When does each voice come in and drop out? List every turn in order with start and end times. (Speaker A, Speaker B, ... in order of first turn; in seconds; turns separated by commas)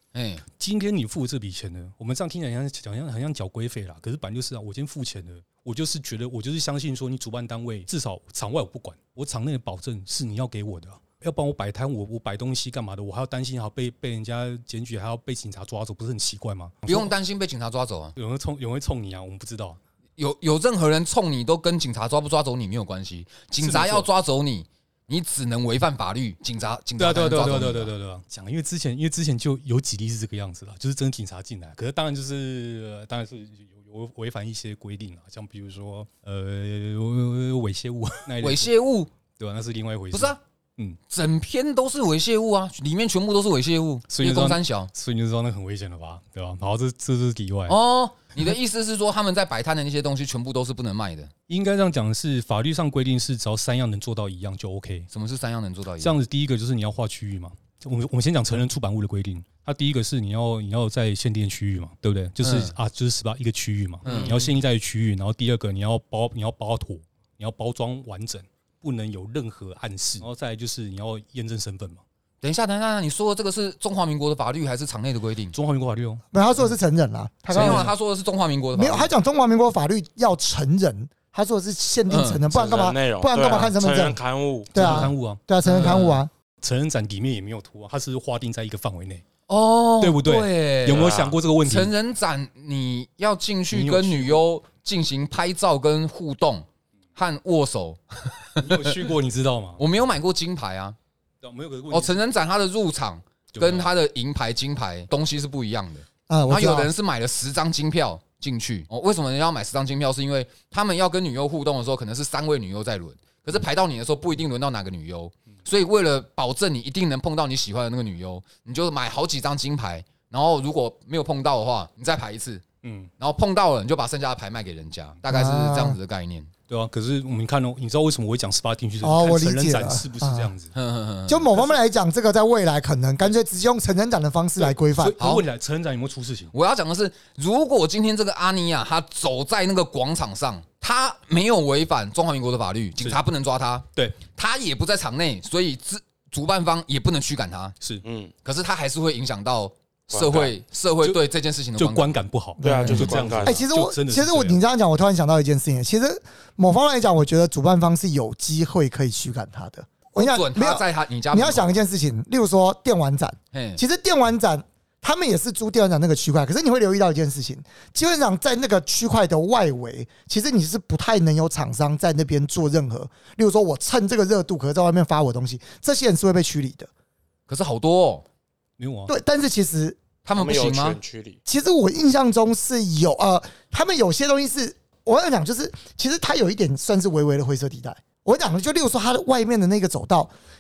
Speaker A: 0.1-0.4, Speaker B: 0.5-17.1, Speaker A: 16.9-18.1, Speaker B: 18.2-19.8, Speaker A: 20.2-27.9, Speaker B: 23.6-24.1, Speaker B: 27.0-38.7, Speaker A: 38.4-39.1, Speaker B: 39.4-41.0, Speaker A: 40.1-40.4, Speaker A: 41.1-44.9, Speaker B: 44.1-47.8, Speaker A: 47.7-51.3, Speaker B: 51.5-55.1, Speaker A: 55.1-56.2, Speaker B: 56.0-72.0, Speaker A: 62.4-62.7, Speaker A: 64.0-64.5, Speaker C: 64.1-64.4, Speaker A: 72.4-75.5, Speaker B: 75.5-76.2, Speaker D: 76.3-77.9, Speaker B: 77.5-77.9, Speaker A: 77.5-79.1, Speaker D: 78.7-86.3, Speaker A: 82.1-82.4, Speaker C: 82.5-84.9, Speaker B: 84.7-86.1, Speaker A: 85.6-86.2, Speaker B: 86.6-89.2, Speaker A: 89.5-99.0, Speaker B: 90.0-91.9, Speaker C: 90.9-91.3, Speaker B: 93.7-94.4, Speaker B: 98.6-99.8, Speaker A: 99.8-101.0, Speaker B: 101.4-102.2, Speaker A: 101.9-122.6, Speaker B: 103.5-103.9, Speaker D: 106.3-106.9, Speaker B: 122.8-123.1, Speaker A: 123.2-126.5, Speaker D: 125.3-126.0, Speaker B: 126.7-130.7, Speaker D: 129.0-130.5, Speaker A: 130.7-131.6, Speaker D: 131.3-135.2, Speaker B: 134.6-136.5, Speaker A: 135.2-135.4, Speaker A: 136.5-147.8, Speaker C: 148.0-148.3, Speaker A: 148.4-152.2, Speaker C: 150.1-150.5, Speaker B: 151.8-154.6, Speaker D: 152.6-176.9, Speaker C: 152.6-153.6, Speaker A: 160.2-161.8, Speaker A: 163.5-163.8, Speaker A: 177.5-178.2, Speaker B: 178.8-179.1, Speaker D: 179.1-180.0, Speaker A: 180.2-181.0, Speaker C: 180.3-181.4, Speaker D: 181.4-190.3